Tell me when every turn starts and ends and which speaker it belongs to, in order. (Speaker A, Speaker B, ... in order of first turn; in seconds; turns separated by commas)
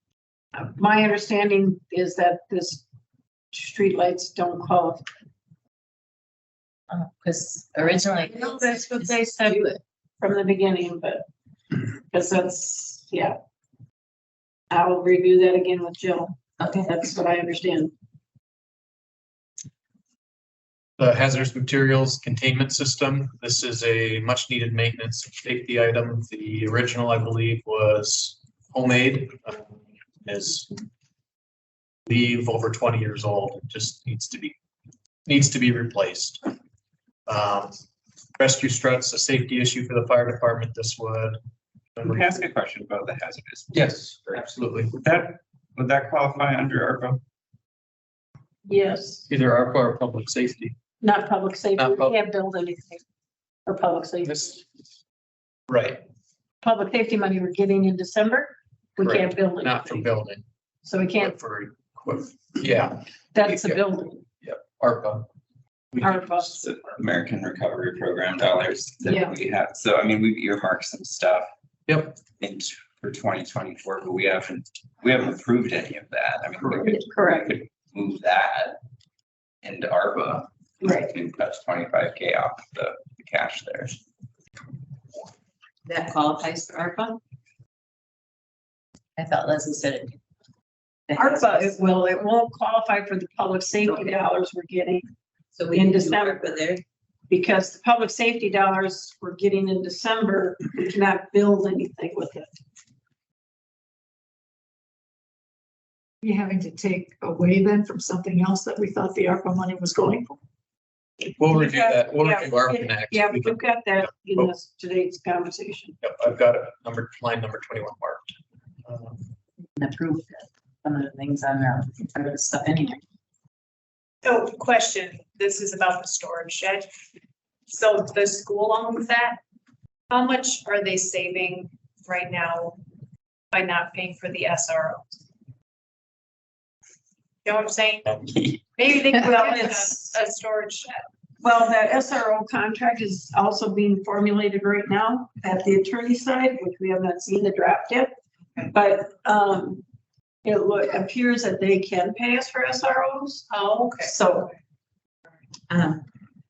Speaker A: 0.5-2.8, Speaker A: 3.5-5.0, Speaker B: 6.9-9.8, Speaker A: 8.3-9.7, Speaker A: 10.2-11.2, Speaker A: 12.1-13.4, Speaker A: 14.7-17.9, Speaker B: 16.6-16.9, Speaker C: 21.0-30.8, Speaker C: 32.1-34.6, Speaker C: 35.2-36.4, Speaker C: 37.3-37.7, Speaker C: 38.4-41.4, Speaker C: 42.0-42.4, Speaker D: 42.0-44.4, Speaker C: 43.7-45.0, Speaker D: 45.0-47.2, Speaker A: 48.6-49.3, Speaker C: 49.3-50.8, Speaker A: 51.0-53.0, Speaker C: 51.8-52.2, Speaker A: 53.6-54.6, Speaker C: 54.2-54.6, Speaker C: 55.7-56.0, Speaker A: 56.6-60.1, Speaker C: 59.0-60.5, Speaker A: 60.8-61.4, Speaker C: 61.1-63.8, Speaker A: 63.3-64.2, Speaker C: 64.4-65.2, Speaker C: 65.9-66.6, Speaker A: 66.0-67.0, Speaker D: 66.6-71.5, Speaker A: 69.0-69.3, Speaker C: 71.9-72.2, Speaker D: 72.4-78.8, Speaker C: 76.6-76.9, Speaker A: 76.8-77.5, Speaker D: 79.6-84.0, Speaker A: 80.8-81.1, Speaker B: 85.8-87.2, Speaker B: 89.2-90.2, Speaker B: 91.1-91.8, Speaker A: 91.2-95.1, Speaker B: 95.5-96.8, Speaker A: 95.7-96.7, Speaker A: 97.3-102.6, Speaker E: 106.2-110.4, Speaker C: 111.4-114.5, Speaker A: 111.5-116.0, Speaker C: 116.0-118.3, Speaker C: 118.8-119.3, Speaker B: 119.8-123.0, Speaker F: 124.2-126.9, Speaker F: 127.7-129.4, Speaker F: 130.1-132.8, Speaker F: 133.5-135.0, Speaker F: 137.4-138.1, Speaker F: 138.8-141.0, Speaker A: 139.3-140.1, Speaker A: 141.4-148.1, Speaker A: 148.7-149.8, Speaker A: 150.4-153.4, Speaker F: 153.5-154.2, Speaker A: 154.0-154.5, Speaker B: 155.7-156.0